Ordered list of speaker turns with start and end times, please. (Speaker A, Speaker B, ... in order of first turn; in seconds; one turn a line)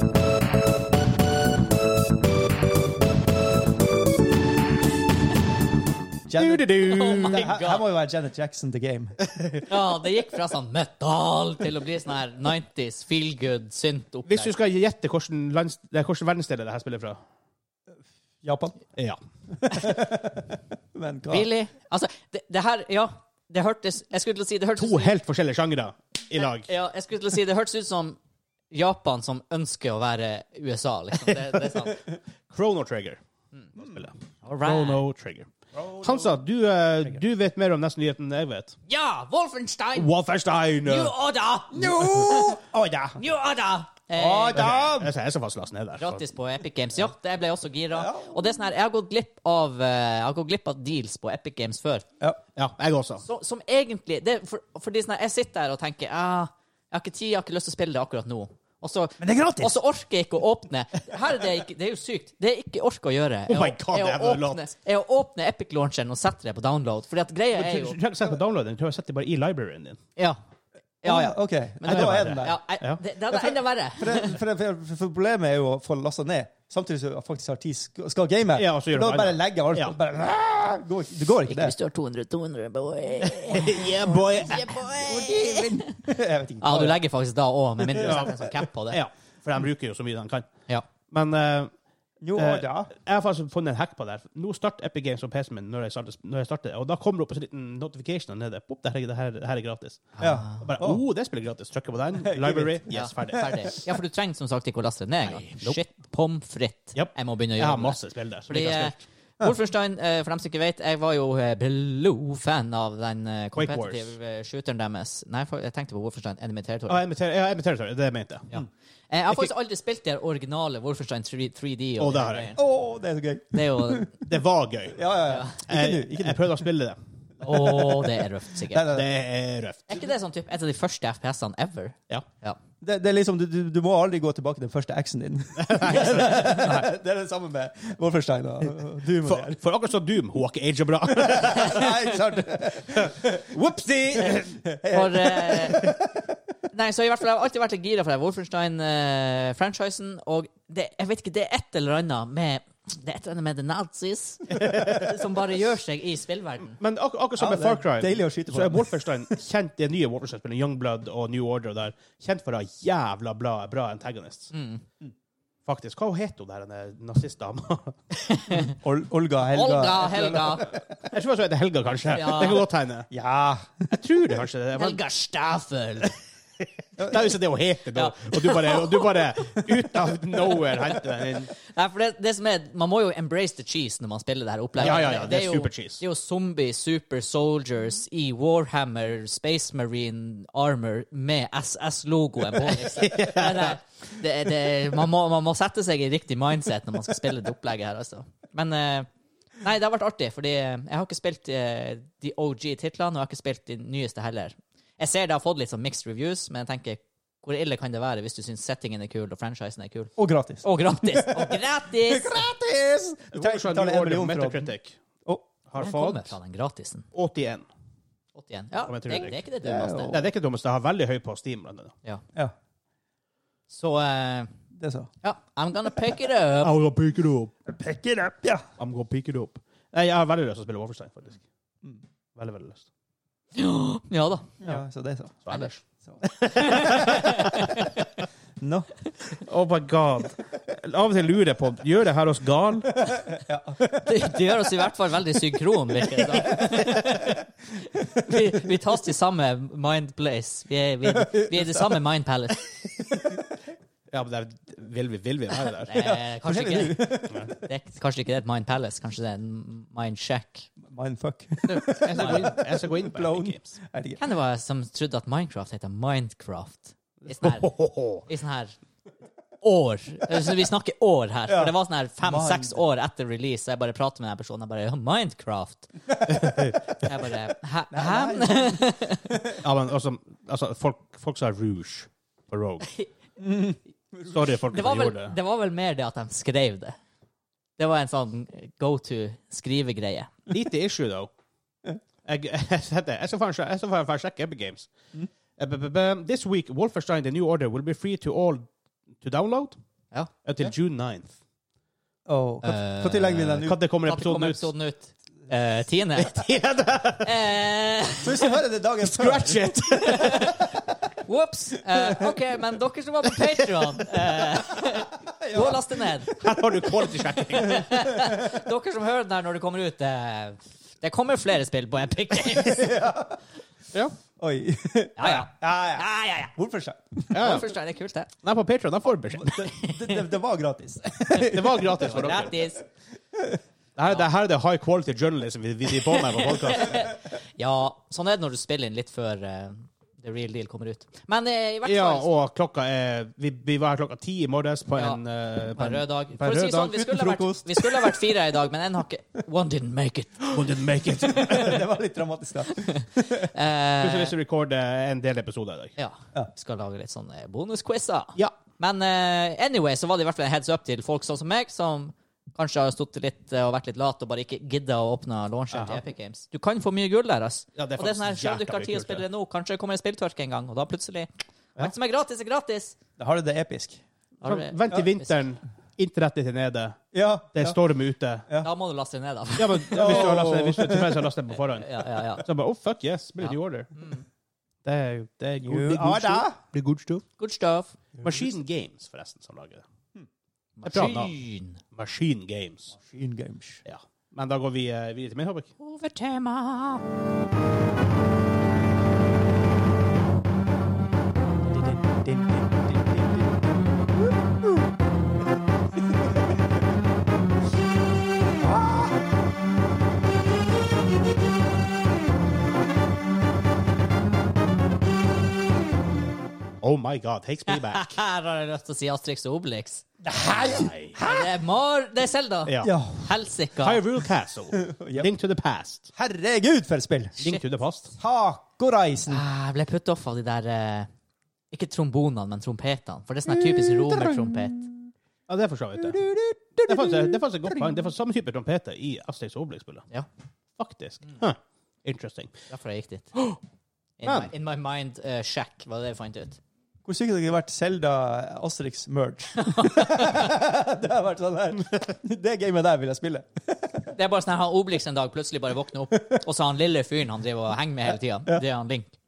Speaker A: 6.3-9.2
Speaker B: 6.3-7.5
Speaker C: 6.8-7.8
Speaker B: 9.2-9.6
Speaker C: 9.7-14.5
Speaker B: 14.3-17.2
Speaker A: 18.4-18.8
Speaker A: 19.5-21.5
Speaker C: 21.3-25.1
Speaker B: 24.8-26.7
Speaker C: 26.4-28.2
Speaker C: 28.7-32.0
Speaker B: 31.3-31.9
Speaker B: 32.5-33.2
Speaker B: 33.8-35.5
Speaker C: 34.4-35.0
Speaker A: 35.7-36.4
Speaker B: 36.0-38.8
Speaker C: 38.9-40.1
Speaker B: 39.9-41.1
Speaker C: 40.8-42.6
Speaker A: 41.7-43.2
Speaker C: 43.2-44.7
Speaker A: 44.1-45.1
Speaker B: 44.5-46.2
Speaker C: 46.0-52.0
Speaker A: 47.9-48.4
Speaker B: 52.5-53.2
Speaker C: 53.2-68.0
Speaker A: 59.2-59.7
Speaker B: 63.5-64.6
Speaker B: 67.5-70.0
Speaker C: 71.0-74.4
Speaker A: 71.0-72.6
Speaker B: 71.8-73.0
Speaker A: 74.0-81.7
Speaker B: 78.5-79.9
Speaker C: 81.5-86.1
Speaker B: 83.2-84.8
Speaker A: 84.6-87.0
Speaker C: 86.6-89.0
Speaker B: 87.9-90.5
Speaker B: 91.1-91.7
Speaker A: 92.2-92.9
Speaker B: 92.3-103.7
Speaker C: 100.2-100.7
Speaker A: 100.2-101.0
Speaker A: 102.2-103.6
Speaker C: 102.9-117.0
Speaker B: 105.3-105.8
Speaker B: 106.9-109.0
Speaker B: 113.5-114.1
Speaker B: 116.9-118.5
Speaker C: 118.5-122.6
Speaker B: 122.0-122.5
Speaker A: 122.5-124.2
Speaker C: 123.5-124.1
Speaker B: 124.2-125.1
Speaker A: 124.9-126.6
Speaker C: 125.3-125.6
Speaker B: 125.7-127.0
Speaker C: 127.4-128.9
Speaker A: 127.4-129.1
Speaker B: 128.8-129.9
Speaker C: 129.9-132.6
Speaker A: 132.8-139.6
Speaker B: 135.6-136.9
Speaker B: 139.2-142.1
Speaker A: 141.1-143.5
Speaker B: 142.9-144.6
Speaker A: 144.2-146.2
Speaker C: 144.9-145.9
Speaker C: 146.7-156.8
Speaker B: 154.5-155.2
Speaker B: 156.8-164.5
Speaker A: 157.4-159.3
Speaker C: 164.5-164.8
Speaker B: 165.7-168.0
Speaker C: 168.2-168.7
Speaker A: 168.7-170.8
Speaker C: 169.5-170.7
Speaker B: 171.1-173.1
Speaker C: 172.1-172.6
Speaker A: 173.1-173.9
Speaker B: 173.9-175.0
Speaker C: 174.7-176.1
Speaker B: 177.0-181.5
Speaker C: 177.9-179.1
Speaker C: 181.6-199.1
Speaker B: 184.8-186.0
Speaker B: 192.7-193.8
Speaker C: 199.6-212.4
Speaker A: 210.2-214.7
Speaker B: 213.3-215.0
Speaker B: 215.7-216.3
Speaker C: 215.8-217.0
Speaker B: 217.1-217.7
Speaker C: 218.3-220.2
Speaker B: 218.9-219.4
Speaker A: 219.6-220.3
Speaker B: 220.1-221.9
Speaker C: 223.7-224.5
Speaker A: 224.7-225.1
Speaker C: 225.2-226.7
Speaker B: 226.6-227.5
Speaker A: 227.7-228.7
Speaker B: 228.8-231.4
Speaker B: 232.3-232.8
Speaker C: 233.5-234.5
Speaker A: 234.6-235.4
Speaker B: 235.4-237.8
Speaker C: 236.5-238.0
Speaker A: 238.6-238.9
Speaker B: 239.4-243.2
Speaker A: 243.1-244.1
Speaker C: 243.9-247.4
Speaker A: 246.3-247.3
Speaker C: 248.0-252.7
Speaker A: 251.1-251.8
Speaker B: 254.1-256.1
Speaker C: 255.8-260.7
Speaker A: 255.9-257.5
Speaker A: 260.8-264.2
Speaker B: 261.7-263.7
Speaker C: 264.2-268.7
Speaker B: 267.4-268.2
Speaker C: 269.6-276.1
Speaker A: 271.5-272.8
Speaker A: 276.1-276.8
Speaker B: 276.3-276.8
Speaker C: 277.0-279.4
Speaker A: 277.9-279.6
Speaker B: 279.5-282.9
Speaker A: 283.4-284.4
Speaker B: 284.2-285.3
Speaker C: 284.7-286.9
Speaker C: 287.8-290.3
Speaker B: 290.5-291.3
Speaker B: 292.2-294.9
Speaker B: 295.6-298.7
Speaker B: 299.2-299.8
Speaker B: 300.4-301.3
Speaker A: 302.2-303.8
Speaker C: 302.6-306.4
Speaker B: 303.5-304.7
Speaker B: 306.2-307.3
Speaker C: 307.2-308.4
Speaker A: 308.2-309.8
Speaker B: 309.0-310.6
Speaker C: 310.0-310.6
Speaker C: 311.2-316.4
Speaker A: 312.0-312.3
Speaker A: 315.2-316.5
Speaker B: 316.3-317.9
Speaker C: 317.5-323.0
Speaker A: 317.6-318.5
Speaker A: 322.5-323.4
Speaker A: 324.4-327.4
Speaker C: 325.2-326.5
Speaker C: 327.3-328.3
Speaker B: 327.3-327.8
Speaker B: 328.4-329.6
Speaker A: 329.3-332.7
Speaker C: 329.7-330.2
Speaker B: 331.3-332.5
Speaker C: 331.9-332.8
Speaker A: 333.3-333.6
Speaker B: 333.9-337.1
Speaker C: 336.1-342.3
Speaker B: 341.8-347.1
Speaker C: 344.9-345.2
Speaker C: 345.7-350.6
Speaker A: 346.9-348.3
Speaker B: 350.5-351.8
Speaker A: 351.1-353.5
Speaker C: 351.2-351.7
Speaker C: 352.7-354.3
Speaker B: 354.0-355.9
Speaker C: 356.0-372.9
Speaker B: 365.7-366.0
Speaker B: 367.8-369.2
Speaker A: 373.2-374.0
Speaker C: 374.4-375.3
Speaker B: 374.4-377.0
Speaker A: 377.1-377.8
Speaker B: 377.5-378.5
Speaker C: 378.6-380.3
Speaker B: 379.6-383.9
Speaker A: 379.9-381.2
Speaker C: 381.7-382.4
Speaker C: 383.4-384.2
Speaker B: 384.8-387.2
Speaker A: 385.6-386.6
Speaker C: 387.4-387.9
Speaker A: 388.2-388.5
Speaker B: 388.2-389.8
Speaker C: 390.8-391.8
Speaker B: 390.8-391.3
Speaker B: 391.9-392.9
Speaker A: 392.9-393.8
Speaker B: 393.9-395.7
Speaker C: 395.8-397.0
Speaker A: 401.7-403.7
Speaker A: 408.6-409.1
Speaker B: 416.8-418.2
Speaker C: 417.7-420.0
Speaker A: 420.2-421.5
Speaker B: 420.5-421.2
Speaker C: 421.2-424.0
Speaker B: 422.6-422.9
Speaker A: 422.8-423.3
Speaker B: 423.8-426.1
Speaker A: 424.7-425.3
Speaker A: 426.1-427.4
Speaker B: 427.4-428.1
Speaker A: 428.2-429.4
Speaker C: 429.3-431.1
Speaker C: 431.7-434.8
Speaker A: 433.5-434.9
Speaker B: 435.5-436.2
Speaker A: 436.0-438.0
Speaker B: 436.9-440.1
Speaker B: 440.8-442.6
Speaker C: 442.7-443.4
Speaker C: 444.2-446.6
Speaker B: 444.2-444.5
Speaker A: 447.0-453.9
Speaker C: 449.6-450.5
Speaker C: 454.1-459.1